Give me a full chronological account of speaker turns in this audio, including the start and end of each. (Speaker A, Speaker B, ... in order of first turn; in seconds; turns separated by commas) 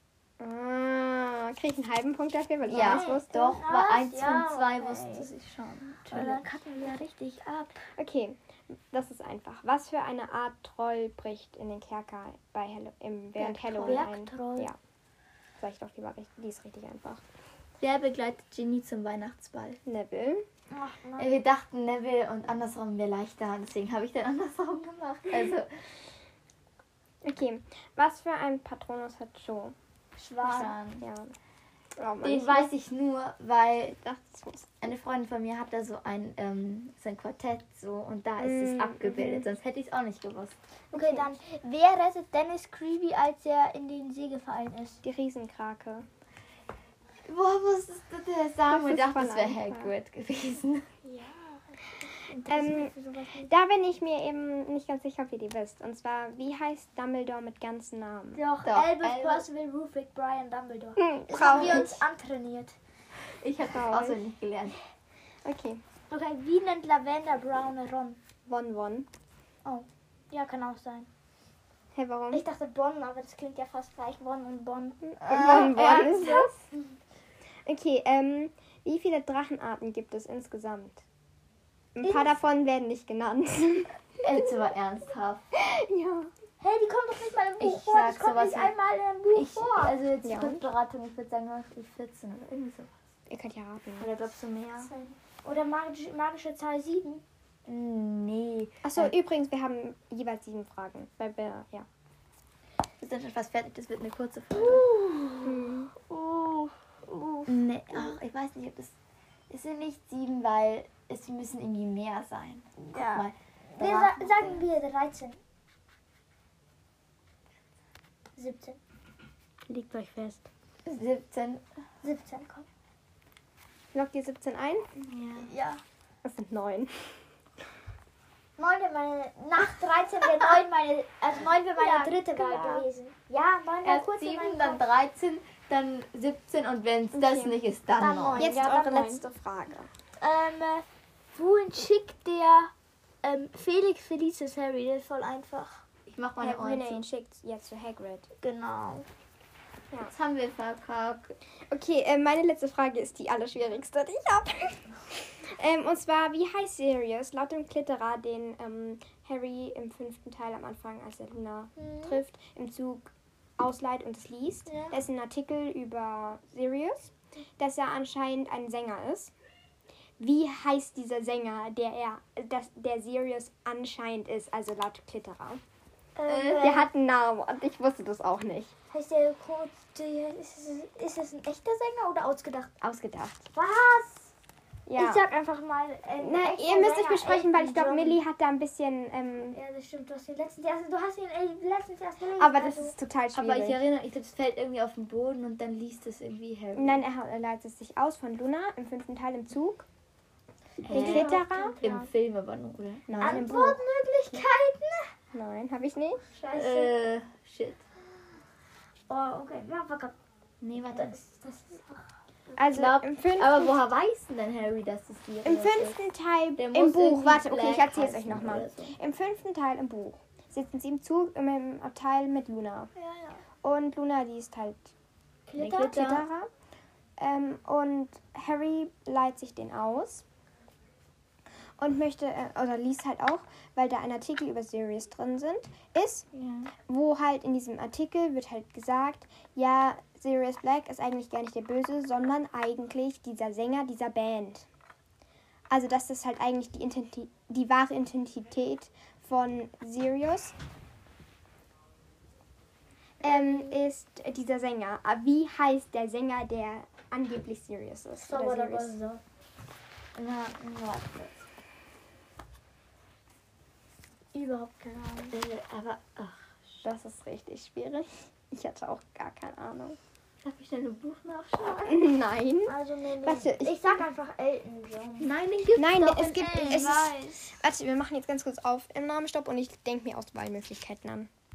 Speaker A: 0.4-3.3, Speaker B: 2.7-6.4, Speaker C: 2.7-5.3, Speaker C: 6.1-7.9, Speaker A: 8.0-14.8, Speaker C: 13.4-14.7, Speaker B: 13.7-14.1, Speaker A: 15.6-17.2, Speaker B: 17.8-19.8, Speaker A: 19.9-20.4, Speaker C: 20.7-21.4, Speaker B: 21.2-25.8, Speaker A: 27.2-29.8, Speaker C: 30.2-30.8, Speaker B: 30.4-31.0, Speaker A: 31.0-31.3, Speaker A: 32.0-32.7, Speaker B: 32.2-34.0, Speaker A: 34.0-34.7, Speaker B: 34.8-40.5, Speaker A: 38.4-39.5, Speaker A: 40.9-41.3, Speaker C: 40.9-45.0, Speaker A: 45.0-46.1, Speaker B: 47.2-50.9, Speaker A: 48.7-49.9, Speaker C: 51.0-51.7, Speaker C: 52.3-53.5, Speaker A: 52.5-58.4, Speaker C: 58.4-62.8, Speaker B: 58.6-59.5, Speaker A: 61.0-62.0, Speaker B: 63.4-64.8, Speaker A: 63.7-64.2, Speaker A: 65.4-65.8, Speaker C: 66.1-68.2, Speaker A: 68.5-69.1, Speaker C: 69.7-71.1, Speaker A: 71.9-72.4, Speaker C: 72.3-76.5, Speaker A: 75.0-76.6, Speaker B: 75.2-76.3, Speaker A: 77.7-81.0, Speaker A: 82.0-83.9, Speaker C: 82.0-82.3, Speaker B: 84.2-85.4, Speaker A: 85.5-86.3, Speaker C: 86.6-89.9, Speaker B: 87.6-88.7, Speaker B: 89.3-92.9, Speaker A: 90.2-90.7, Speaker A: 93.3-94.1, Speaker B: 94.0-94.9, Speaker C: 94.8-97.2, Speaker B: 97.7-99.1, Speaker A: 98.8-101.9, Speaker B: 103.0-104.9, Speaker C: 104.5-108.1, Speaker A: 105.4-105.9, Speaker B: 107.5-108.9, Speaker B: 109.5-114.7, Speaker C: 112.8-115.4, Speaker C: 118.4-118.8, Speaker C: 119.7-120.5, Speaker B: 120.8-121.6, Speaker C: 122.0-122.7, Speaker A: 123.9-124.9, Speaker B: 125.1-125.5, Speaker C: 125.1-125.8, Speaker A: 126.2-127.2, Speaker C: 128.6-134.9, Speaker B: 130.2-130.6, Speaker B: 131.8-132.8, Speaker B: 133.8-138.5, Speaker A: 137.1-137.6, Speaker C: 137.9-139.2, Speaker A: 138.4-139.9, Speaker C: 140.2-142.7, Speaker C: 143.2-145.8, Speaker B: 146.1-147.1, Speaker A: 146.4-148.3, Speaker C: 148.4-149.1, Speaker B: 150.1-151.4, Speaker A: 151.7-169.3, Speaker C: 161.8-162.2, Speaker C: 164.7-164.9, Speaker A: 170.2-175.6, Speaker C: 176.2-176.9, Speaker B: 176.3-176.7, Speaker A: 176.6-178.7, Speaker C: 178.9-182.7, Speaker A: 182.8-183.4, Speaker C: 183.5-184.3, Speaker A: 184.9-185.2, Speaker C: 185.0-188.2, Speaker A: 186.2-189.6, Speaker C: 189.5-192.9, Speaker A: 192.4-193.8, Speaker B: 193.3-197.0, Speaker A: 196.7-199.9, Speaker C: 200.8-202.1, Speaker B: 200.8-203.5, Speaker A: 200.9-201.8, Speaker A: 203.1-204.4, Speaker C: 203.2-205.1, Speaker A: 205.3-206.2, Speaker C: 206.3-206.9, Speaker B: 206.5-207.8, Speaker C: 209.1-210.1, Speaker B: 210.6-211.2, Speaker C: 210.8-212.0, Speaker A: 212.6-213.9, Speaker B: 212.7-216.0, Speaker A: 215.4-222.9, Speaker B: 216.6-218.9, Speaker C: 223.0-223.4, Speaker A: 223.6-224.9, Speaker C: 225.5-226.0, Speaker B: 225.6-226.3, Speaker A: 225.9-226.5, Speaker A: 227.2-230.2, Speaker A: 231.8-236.3, Speaker B: 236.3-236.7, Speaker A: 236.8-244.7, Speaker A: 245.7-250.5, Speaker A: 253.2-258.9, Speaker C: 253.2-253.8, Speaker C: 258.2-259.2, Speaker B: 260.1-261.4, Speaker C: 264.3-265.4, Speaker B: 265.3-266.8, Speaker A: 266.8-270.0, Speaker B: 270.4-272.0, Speaker A: 271.9-274.1, Speaker C: 272.7-275.3, Speaker B: 275.2-277.1, Speaker A: 275.8-281.3, Speaker C: 276.4-277.6